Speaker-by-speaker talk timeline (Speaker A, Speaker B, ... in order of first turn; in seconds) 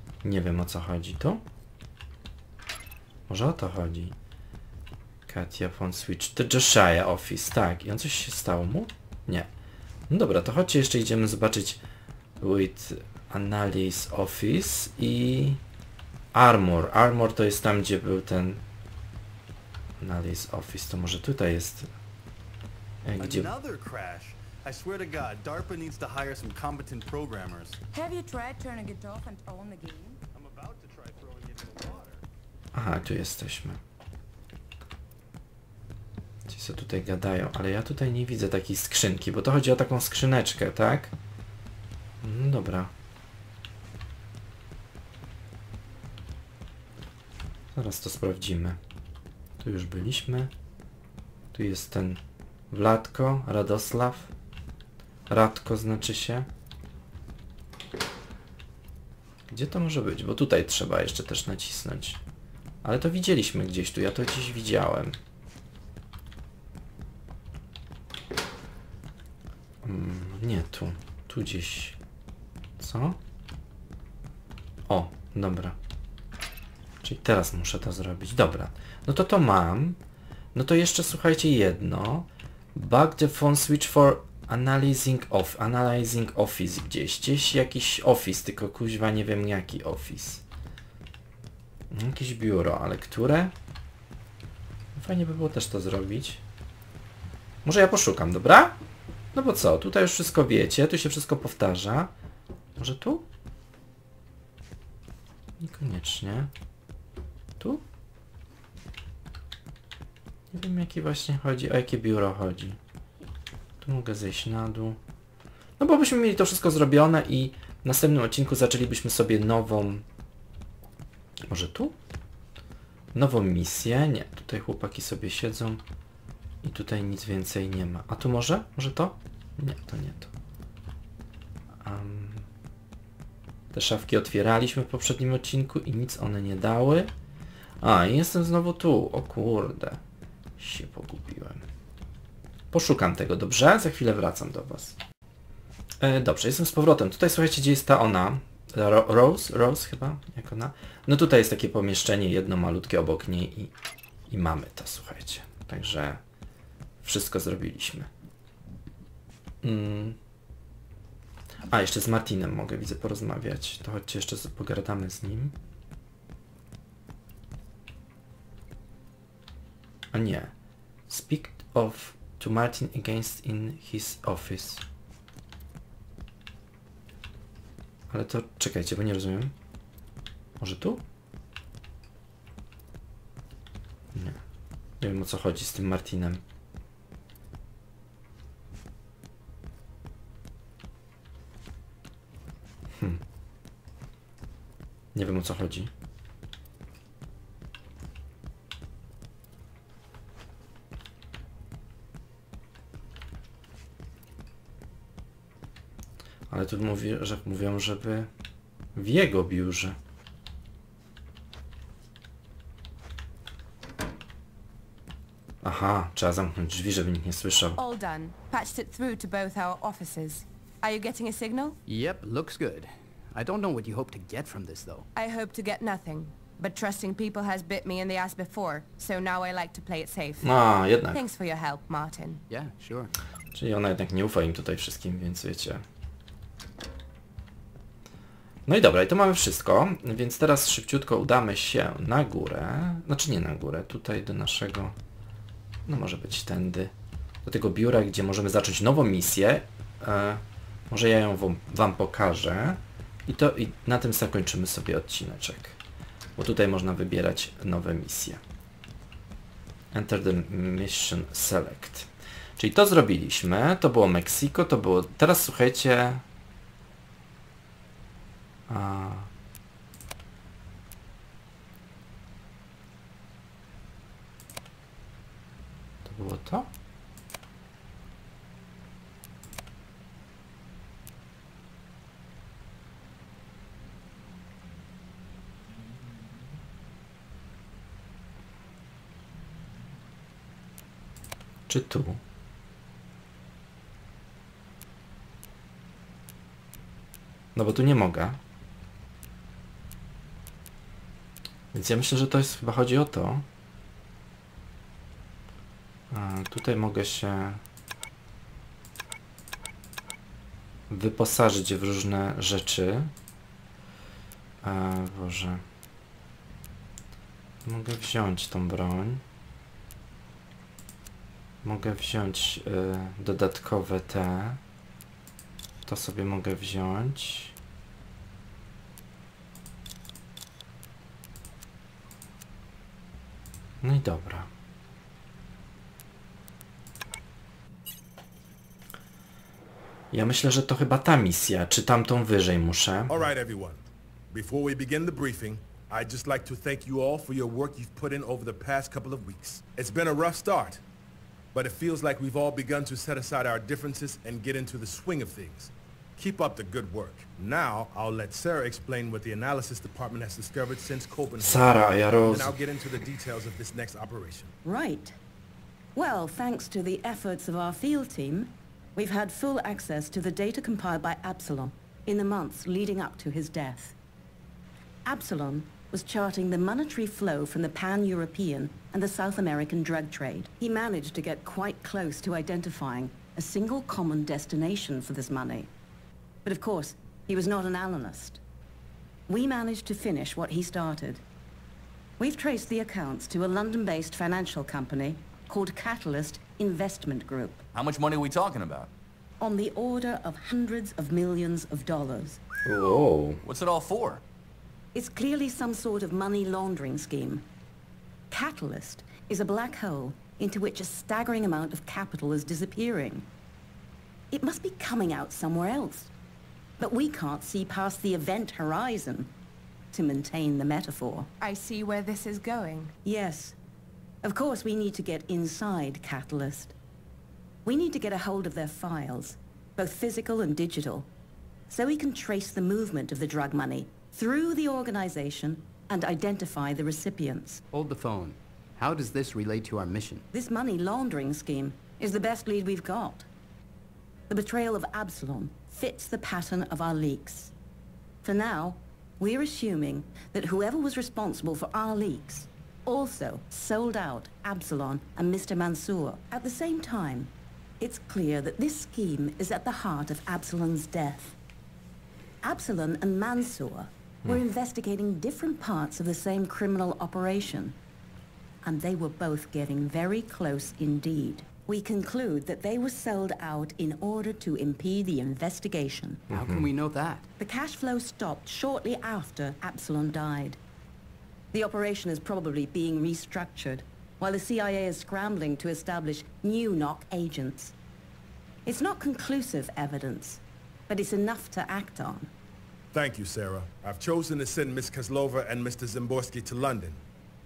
Speaker A: 0.2-1.4, 3.3-4.1, 5.3-9.5, 10.1-11.8, 12.4-15.6, 16.3-18.6, 20.0-21.9, 23.0-23.5, 32.7-33.8, 36.5-41.1, 42.2-42.9, 47.7-48.8, 49.6-50.5, 51.5-54.3, 55.3-56.5, 59.5-62.2, 62.8-65.2, 69.8-72.0, 72.8-73.2, 74.9-75.8, 77.0-80.0, 80.5-90.4, 91.9-93.5, 95.0-96.4, 97.6-98.8, 99.3-102.1, 102.8-103.2, 105.6-106.5, 110.5-112.8, 113.8-115.0, 115.8-120.0, 121.5-122.0, 123.1-125.8, 126.6-130.3, 131.8-132.5, 133.7-137.1, 137.8-140.0, 140.6-141.6, 142.7-144.9, 146.0-153.7, 154.3-156.2, 157.0-158.1, 159.6-160.2, 161.7-165.5, 170.1-170.5, 171.1-174.8, 178.1-179.5, 180.6-181.0, 185.0-186.4, 195.1-195.9, 206.5-208.3, 208.9-210.0, 215.6-217.8, 230.4-231.2, 233.5-235.8, 238.7-244.9, 245.8-246.9, 247.4-255.8, 256.4-258.4, 259.9-266.2, 268.7-269.3, 276.0-276.7, 291.7-292.2, 297.5-298.4, 301.7-303.4, 306.1-307.6, 310.9-313.1, 314.6-315.6, 317.6-319.2, 321.6-324.6, 325.8-327.5, 333.8-334.5, 340.1-343.2, 361.4-362.5, 402.6-403.4, 476.3-476.7
Speaker B: 23.2-27.8, 30.3-32.2
Speaker C: 27.9-30.2
Speaker D: 217.8-221.8, 225.1-230.5, 231.1-232.4, 421.4-422.9
Speaker E: 221.9-225.1, 232.5-233.1, 437.7-440.2, 476.3-477.2
Speaker F: 343.1-343.8, 344.3-350.8, 351.5-364.5, 492.9-497.0
Speaker G: 364.6-365.2, 365.9-373.9, 375.0-385.7, 386.4-388.4, 389.3-391.2, 392.2-397.6, 399.4-402.4, 404.9-407.4, 408.3-413.3, 414.3-416.1, 416.8-419.3, 419.9-421.3, 423.0-423.6, 424.2-426.8, 427.6-431.1, 431.7-437.6, 440.3-443.3, 444.3-447.5, 448.2-461.4, 462.4-467.8, 468.6-476.2, 477.4-480.6, 481.5-487.7, 488.6-492.3
Speaker H: 397.7-398.9, 403.4-404.2